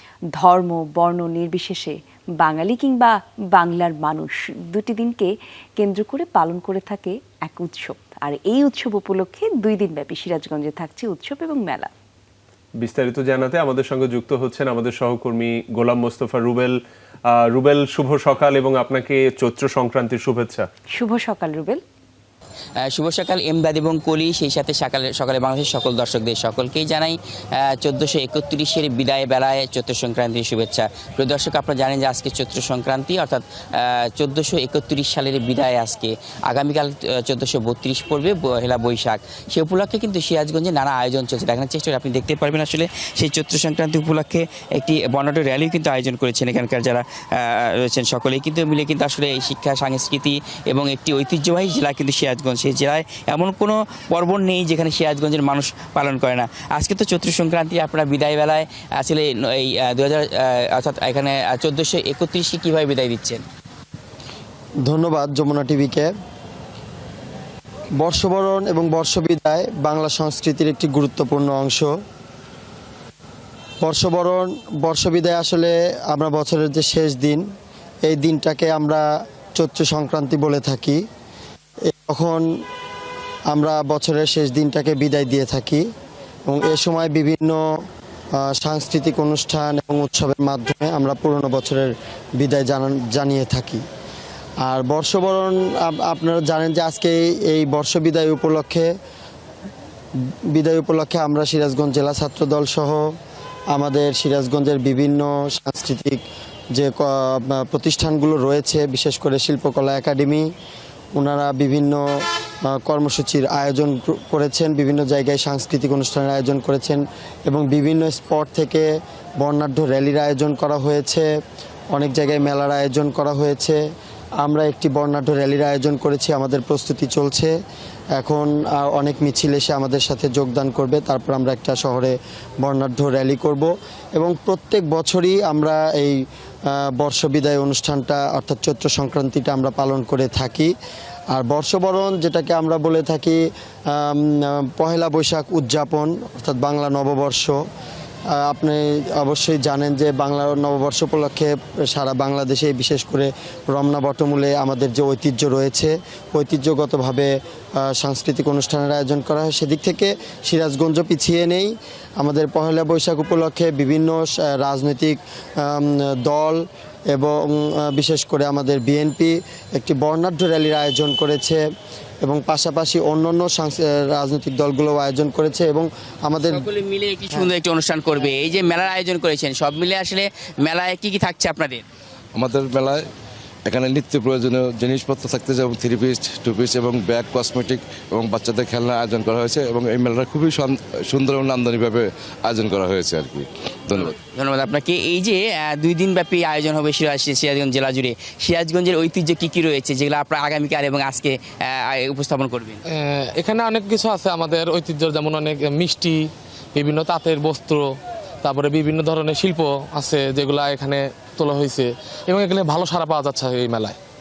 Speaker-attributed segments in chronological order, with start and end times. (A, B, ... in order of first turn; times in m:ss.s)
0:00.4-0:11.9 A
0:12.8-0:20.7 B
0:20.9-0:21.8 A
0:22.8-1:03.4 C
1:04.8-1:06.1 D
1:08.0-1:11.9 D
1:13.8-1:17.4 D
1:18.0-1:19.0 D
1:19.6-1:21.0 D
1:21.8-1:22.4 D
1:23.5-1:25.8 D
1:26.5-1:27.8 D
1:28.4-1:33.8 D
1:34.6-1:38.9 D
1:40.3-1:43.1 D
1:43.7-1:46.2 D
1:46.7-1:50.5 D
1:51.1-2:01.3 D
2:01.9-2:03.8 D
2:04.4-2:07.6 D
2:08.2-2:20.7 D
2:21.3-2:27.6 D
2:28.3-2:51.6 D
2:52.2-2:56.7 D
2:56.5-3:01.8 C
3:02.4-3:03.0 E
3:03.7-3:14.1 E
3:14.2-3:22.8 C
3:22.9-3:34.0 F